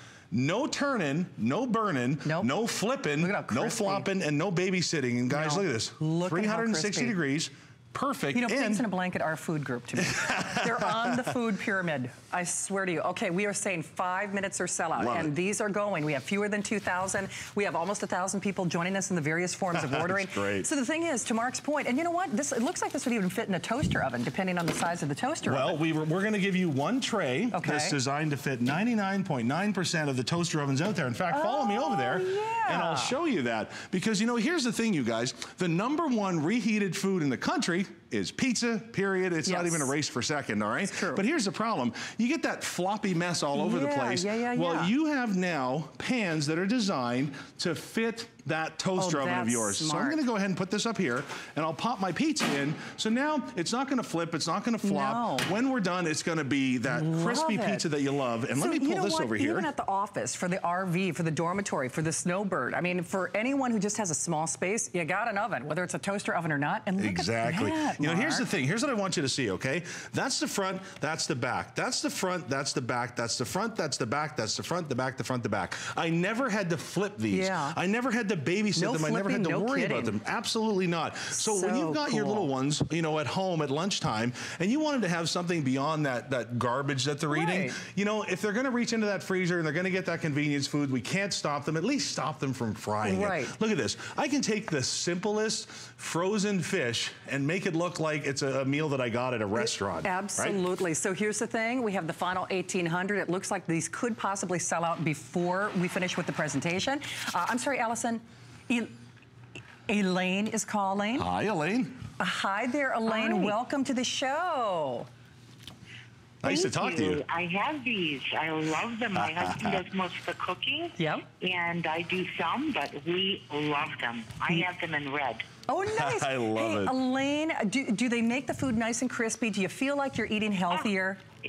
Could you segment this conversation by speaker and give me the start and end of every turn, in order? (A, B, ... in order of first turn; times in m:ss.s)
0:00.3-0:08.8 A
0:02.2-0:02.5 B
0:03.2-0:04.1 B
0:05.3-0:07.2 B
0:08.3-0:25.8 B
0:10.0-0:11.3 A
0:15.0-0:15.3 A
0:19.7-0:20.7 A
0:25.4-0:59.7 A
0:27.5-0:28.0 B
0:31.3-0:33.1 B
0:39.5-0:39.9 B
0:40.9-0:41.2 B
0:43.5-0:44.9 B
0:49.0-0:50.2 B
0:54.8-0:55.5 B
0:56.9-0:57.9 B
0:58.5-1:08.4 B
1:07.0-1:40.6 A
1:17.3-1:17.8 B
1:18.8-1:20.1 B
1:21.3-1:22.5 B
1:27.3-1:27.8 B
1:33.0-1:33.5 B
1:39.6-1:48.9 B
1:49.9-1:51.3 B
1:51.2-1:52.0 A
1:52.2-1:55.1 B
1:56.4-1:57.2 A
1:56.4-2:05.4 C
1:59.2-1:59.8 A
2:01.0-2:01.2 B
2:05.7-2:11.2 B
2:05.9-2:07.0 A